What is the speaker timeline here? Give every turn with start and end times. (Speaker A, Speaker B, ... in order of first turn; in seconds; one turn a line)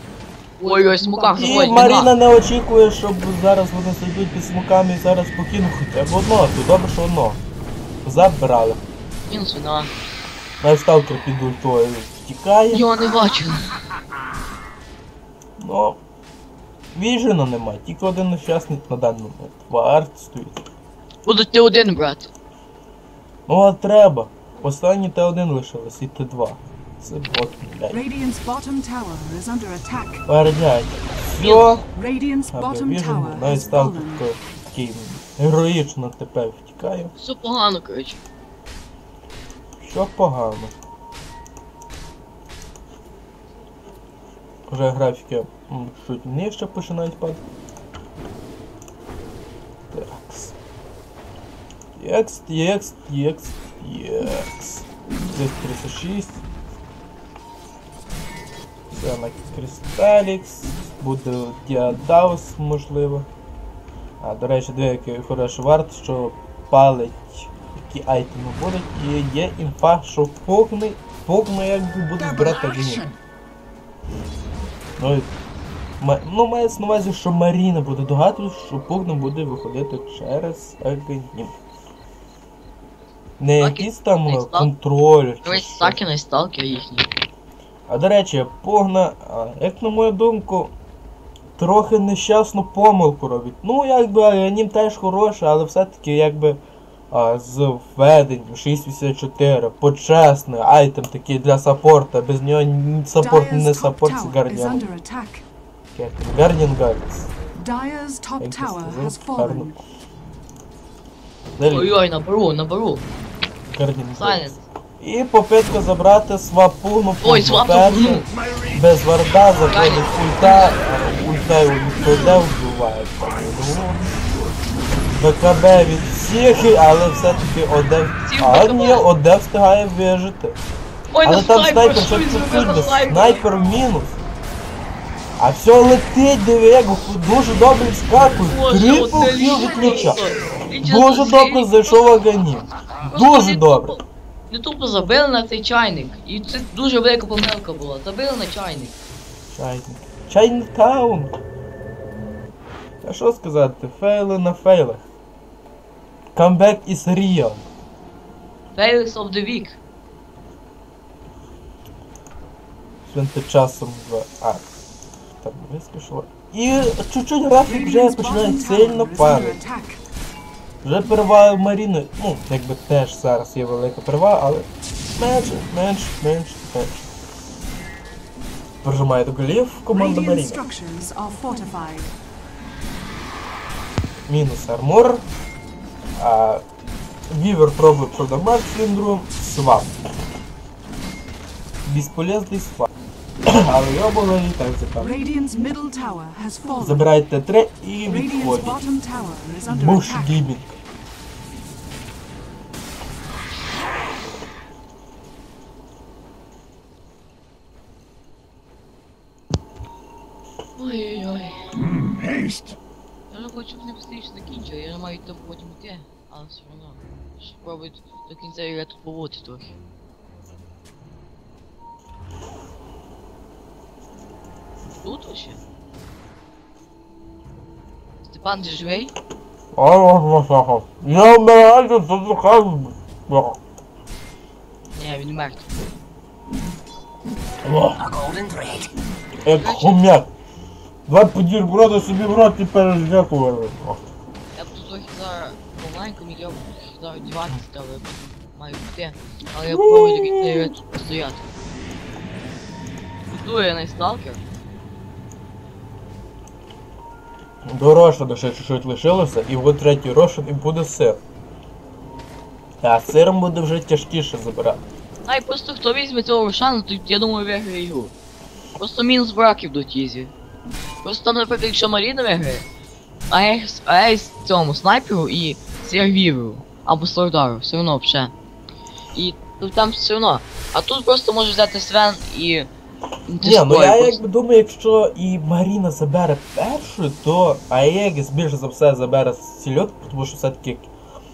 Speaker A: 0.6-2.1
Speaker B: 0.6-1.8
Speaker C: 1.4-7.4
Speaker C: 8.0-8.8
Speaker A: 9.3-9.9
Speaker C: 10.6-12.9
Speaker A: 12.7-13.6
Speaker C: 15.6-16.0
Speaker C: 16.9-20.6
Speaker A: 21.2-22.3
Speaker C: 23.5-28.0
Speaker B: 27.9-30.2
Speaker C: 30.3-31.9
Speaker A: 31.3-31.7
Speaker B: 31.9-34.3
Speaker C: 32.5-37.1
Speaker A: 37.2-38.2
Speaker C: 39.8-40.7
Speaker C: 44.7-47.4
Speaker C: 49.9-50.5
Speaker C: 52.0-56.4
Speaker C: 58.9-63.3
Speaker C: 64.2-73.1
Speaker C: 75.0-75.3
Speaker C: 76.0-81.5
Speaker C: 83.4-86.0
Speaker A: 83.6-84.7
Speaker A: 85.4-87.1
Speaker C: 87.9-90.7
Speaker C: 91.6-96.6
Speaker C: 97.1-104.8
Speaker B: 103.2-105.4
Speaker C: 105.9-107.3
Speaker B: 107.5-109.8
Speaker C: 108.4-109.7
Speaker C: 111.6-111.9
Speaker A: 111.6-113.0
Speaker C: 113.7-124.1
Speaker A: 114.2-114.6
Speaker A: 117.2-118.3
Speaker A: 119.7-120.8
Speaker D: 122.1-122.4
Speaker D: 123.2-124.8
Speaker C: 125.2-130.6
Speaker A: 128.2-129.1
Speaker A: 131.1-133.4
Speaker C: 131.2-134.2
Speaker C: 135.4-140.2
Speaker A: 138.4-142.2
Speaker C: 140.8-144.0
Speaker A: 143.1-148.9
Speaker C: 149.5-151.3
Speaker C: 153.0-155.0
Speaker C: 156.3-157.6
Speaker A: 158.7-159.8
Speaker C: 163.1-164.6
Speaker C: 165.4-169.6
Speaker B: 167.7-170.0
Speaker C: 170.8-177.1
Speaker C: 178.8-180.6
Speaker B: 179.9-182.1
Speaker C: 184.3-185.2
Speaker C: 186.2-186.6
Speaker C: 187.3-189.9
Speaker C: 191.8-192.9
Speaker C: 193.4-195.1
Speaker B: 195.0-197.1
Speaker C: 196.8-198.8
Speaker B: 198.0-200.4
Speaker C: 199.7-200.6
Speaker A: 210.8-211.7
Speaker D: 211.8-212.8
Speaker A: 213.3-219.7
Speaker A: 225.0-225.6
Speaker A: 228.2-229.1
Speaker C: 229.7-233.6
Speaker A: 234.9-235.8
Speaker C: 237.6-238.0
Speaker D: 237.8-238.9
Speaker C: 239.4-240.3
Speaker A: 239.6-240.0
Speaker C: 241.1-244.0
Speaker A: 244.5-251.4
Speaker C: 249.7-250.7
Speaker A: 253.3-254.4
Speaker C: 257.6-261.2
Speaker C: 262.8-264.8
Speaker A: 265.2-268.1
Speaker A: 268.8-270.3
Speaker A: 271.0-272.6
Speaker A: 273.3-278.3
Speaker A: 279.1-282.7
Speaker A: 283.3-284.2
Speaker C: 283.4-290.9